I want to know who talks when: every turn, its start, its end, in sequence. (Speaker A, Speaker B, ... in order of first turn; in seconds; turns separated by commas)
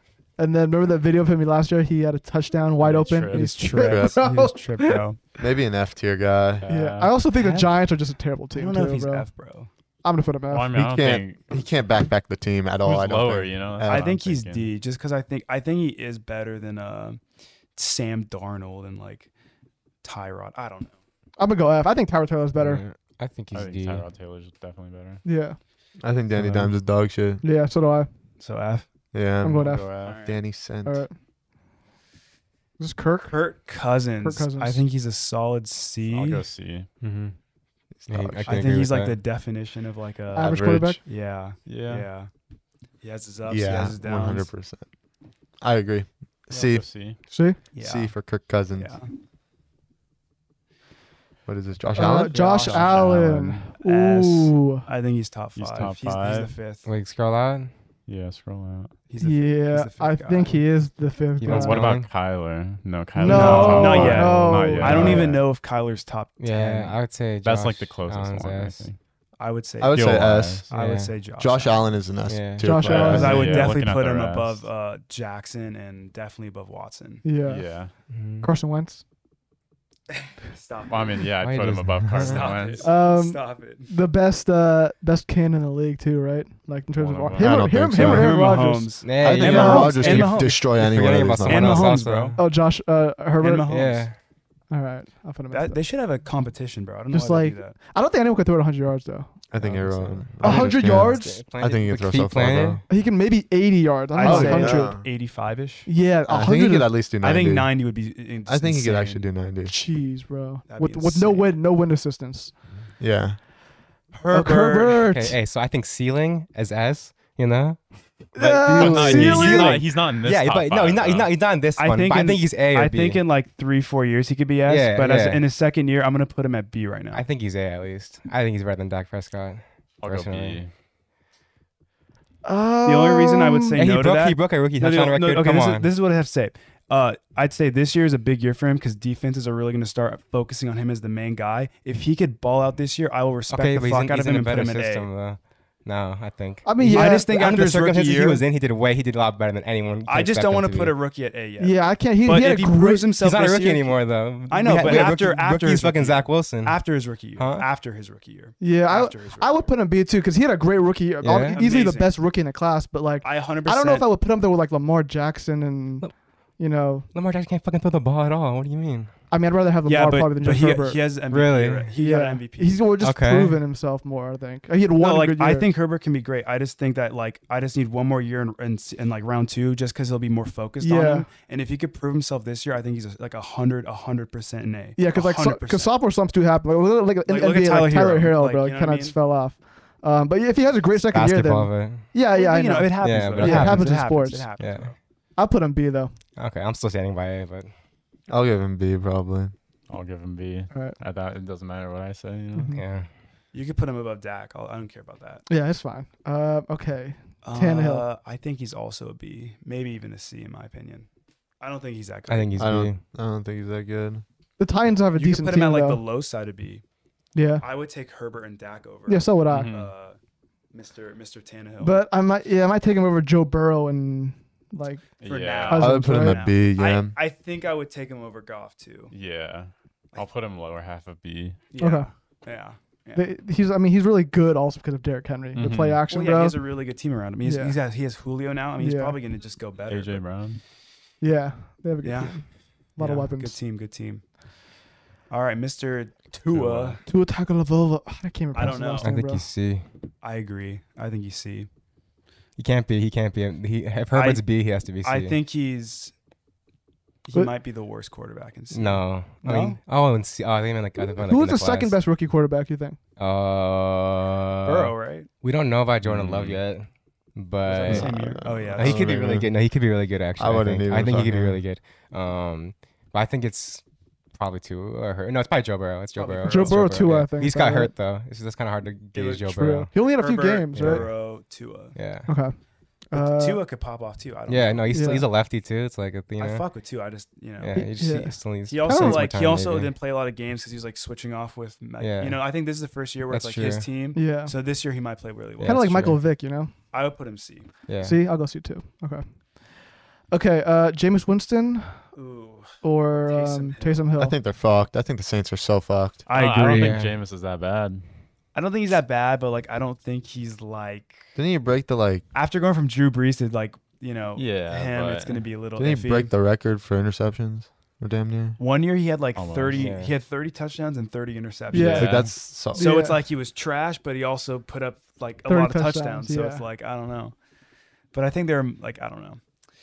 Speaker A: 0.4-5.0, Speaker B: 2.8-3.7, Speaker C: 3.3-5.2, Speaker D: 3.8-4.5, Speaker D: 5.4-6.7, Speaker B: 6.6-7.3, Speaker A: 6.7-9.3, Speaker C: 7.4-7.8, Speaker C: 8.5-9.7, Speaker A: 10.0-10.8, Speaker B: 10.5-11.5, Speaker D: 10.7-14.1, Speaker B: 12.8-14.7, Speaker C: 13.8-17.2, Speaker C: 17.8-19.3, Speaker C: 20.0-21.0, Speaker A: 21.4-22.8, Speaker E: 22.6-24.1, Speaker B: 23.5-25.2, Speaker A: 25.2-25.6, Speaker D: 26.0-27.4, Speaker A: 27.4-28.1, Speaker C: 28.4-28.9, Speaker D: 29.1-31.0, Speaker A: 29.4-29.9, Speaker B: 29.6-30.2, Speaker C: 30.0-30.4, Speaker A: 30.9-31.1, Speaker A: 32.8-33.4, Speaker C: 33.3-36.5, Speaker A: 34.2-34.8, Speaker B: 36.1-37.0, Speaker E: 37.0-37.4, Speaker D: 38.0-38.8, Speaker E: 38.1-39.2, Speaker C: 38.5-42.3, Speaker A: 40.3-41.0, Speaker D: 40.4-41.0, Speaker B: 41.7-42.1, Speaker C: 43.0-44.5, Speaker D: 43.5-44.8, Speaker D: 45.6-46.9, Speaker B: 46.5-47.2, Speaker A: 47.3-47.6, Speaker C: 47.7-48.1, Speaker D: 47.8-48.9, Speaker C: 48.8-49.1, Speaker D: 51.5-52.4, Speaker A: 52.0-54.9, Speaker C: 52.0-53.2, Speaker B: 52.5-53.7, Speaker C: 53.8-56.9, Speaker B: 55.6-56.6, Speaker E: 56.8-57.7, Speaker B: 58.1-59.0, Speaker C: 59.1-60.6, Speaker A: 59.2-61.9, Speaker E: 61.4-62.1, Speaker B: 61.5-65.5, Speaker A: 63.2-65.3, Speaker C: 63.2-66.9, Speaker E: 63.7-64.0, Speaker E: 66.4-68.9, Speaker B: 67.4-69.0, Speaker C: 69.4-71.9, Speaker D: 69.8-70.7, Speaker B: 69.9-70.7, Speaker E: 70.7-71.1, Speaker D: 71.4-73.7, Speaker E: 72.3-72.8, Speaker A: 72.6-73.7, Speaker B: 72.8-74.7, Speaker C: 72.9-77.2, Speaker A: 77.2-79.0, Speaker B: 77.4-77.9, Speaker E: 78.1-78.5, Speaker C: 80.5-81.3, Speaker B: 80.9-83.0, Speaker E: 81.4-82.5, Speaker C: 82.2-83.9, Speaker A: 82.8-90.5, Speaker B: 87.0-87.7, Speaker D: 87.4-88.5, Speaker C: 87.9-90.6, Speaker E: 89.0-92.4, Speaker D: 89.2-92.0, Speaker C: 91.2-92.4, Speaker A: 92.4-93.7, Speaker C: 93.4-94.1, Speaker E: 93.7-94.2, Speaker A: 94.7-95.8, Speaker C: 95.5-97.8, Speaker A: 97.1-99.3, Speaker D: 99.5-102.8, Speaker C: 99.6-100.3, Speaker A: 100.4-101.4, Speaker E: 100.4-102.8, Speaker A: 102.9-105.0, Speaker C: 104.2-105.9, Speaker D: 104.2-105.1, Speaker A: 105.9-106.9, Speaker D: 106.3-107.9, Speaker C: 107.2-109.3, Speaker D: 108.5-109.7, Speaker A: 109.7-112.5, Speaker C: 110.7-111.5, Speaker D: 113.0-113.4, Speaker C: 114.1-115.0, Speaker A: 114.3-115.4, Speaker E: 115.1-123.2, Speaker A: 118.4-119.9, Speaker B: 118.8-121.4, Speaker C: 121.8-127.2, Speaker E: 124.7-125.4, Speaker E: 127.1-130.6, Speaker B: 130.0-130.7, Speaker A: 132.4-133.8, Speaker C: 132.8-145.1, Speaker E: 133.7-135.9, Speaker E: 143.5-151.0, Speaker A: 146.7-147.3, Speaker C: 146.9-148.4, Speaker C: 150.1-159.7, Speaker A: 151.6-153.1, Speaker E: 153.2-157.7, Speaker A: 158.6-167.1, Speaker E: 161.2-161.6, Speaker C: 161.4-162.1, Speaker C: 163.2-164.1, Speaker E: 167.1-169.1, Speaker A: 169.3-171.0, Speaker C: 169.8-172.8, Speaker E: 171.3-171.9, Speaker A: 171.9-175.7, Speaker E: 173.0-173.6, Speaker C: 175.0-185.9, Speaker A: 180.8-181.3, Speaker A: 185.0-194.5, Speaker C: 187.3-189.2, Speaker E: 191.1-192.1, Speaker C: 192.3-195.0, Speaker E: 193.0-193.9, Speaker E: 194.6-194.9, Speaker A: 195.4-196.1, Speaker E: 196.4-197.7, Speaker D: 198.3-199.5, Speaker B: 199.9-202.8, Speaker A: 200.7-201.0, Speaker A: 202.5-202.8, Speaker E: 202.7-203.1, Speaker C: 203.5-205.4, Speaker A: 205.5-208.1, Speaker C: 207.4-211.1, Speaker C: 211.6-212.6, Speaker E: 212.3-213.0, Speaker D: 212.6-214.2, Speaker A: 214.6-216.0, Speaker C: 215.2-216.8, Speaker A: 217.3-217.7, Speaker C: 217.6-220.2, Speaker A: 219.1-219.8, Speaker B: 219.5-219.9, Speaker C: 220.7-222.0, Speaker A: 221.8-226.5, Speaker B: 225.2-225.9, Speaker C: 225.2-229.1, Speaker D: 225.8-227.2, Speaker B: 229.1-231.7, Speaker C: 231.7-233.2, Speaker A: 231.8-232.1, Speaker A: 233.2-236.6, Speaker B: 235.6-236.1, Speaker C: 236.1-240.3, Speaker A: 237.4-237.8, Speaker A: 238.8-239.2, Speaker B: 239.9-240.6, Speaker A: 241.2-243.6, Speaker C: 242.0-242.4, Speaker C: 243.0-244.2, Speaker C: 245.3-247.0, Speaker B: 246.5-247.0, Speaker A: 247.1-249.5, Speaker C: 248.5-249.1, Speaker E: 249.0-249.8, Speaker C: 250.2-251.7, Speaker E: 252.6-255.4, Speaker C: 254.1-254.4, Speaker C: 255.0-256.1, Speaker C: 257.2-259.8, Speaker E: 258.7-262.0, Speaker A: 261.0-263.0, Speaker E: 263.2-273.8, Speaker C: 264.6-265.3, Speaker B: 266.0-266.6, Speaker C: 267.7-269.2, Speaker D: 267.9-269.5, Speaker D: 270.4-271.6, Speaker E: 274.3-279.9, Speaker C: 276.2-276.8, Speaker A: 276.4-277.9, Speaker C: 279.1-279.5, Speaker A: 279.5-281.1, Speaker C: 280.0-282.0, Speaker E: 280.7-281.2, Speaker E: 281.9-282.3, Speaker A: 282.3-282.6, Speaker A: 283.1-283.6, Speaker C: 283.1-285.1, Speaker E: 284.5-286.7, Speaker A: 284.9-285.3, Speaker C: 286.4-295.9, Speaker E: 287.6-289.9, Speaker A: 287.8-289.3, Speaker E: 292.0-292.4, Speaker E: 293.3-293.9, Speaker A: 294.1-294.5, Speaker E: 295.6-296.2, Speaker A: 295.6-296.8, Speaker C: 296.9-297.7, Speaker E: 297.9-298.2, Speaker A: 298.0-299.4, Speaker A: 300.3-302.1, Speaker C: 302.1-304.0, Speaker A: 302.8-304.4, Speaker D: 304.2-306.2, Speaker C: 306.3-307.0, Speaker B: 306.3-308.0, Speaker E: 306.6-307.2, Speaker C: 308.6-311.3, Speaker D: 311.4-312.2, Speaker C: 312.3-316.3, Speaker B: 314.4-315.4, Speaker D: 315.8-318.6, Speaker C: 318.6-327.4, Speaker B: 319.4-320.0, Speaker E: 319.8-320.1, Speaker A: 321.7-323.2, Speaker B: 321.8-322.3, Speaker D: 321.9-322.9, Speaker A: 325.5-326.6, Speaker C: 328.1-329.4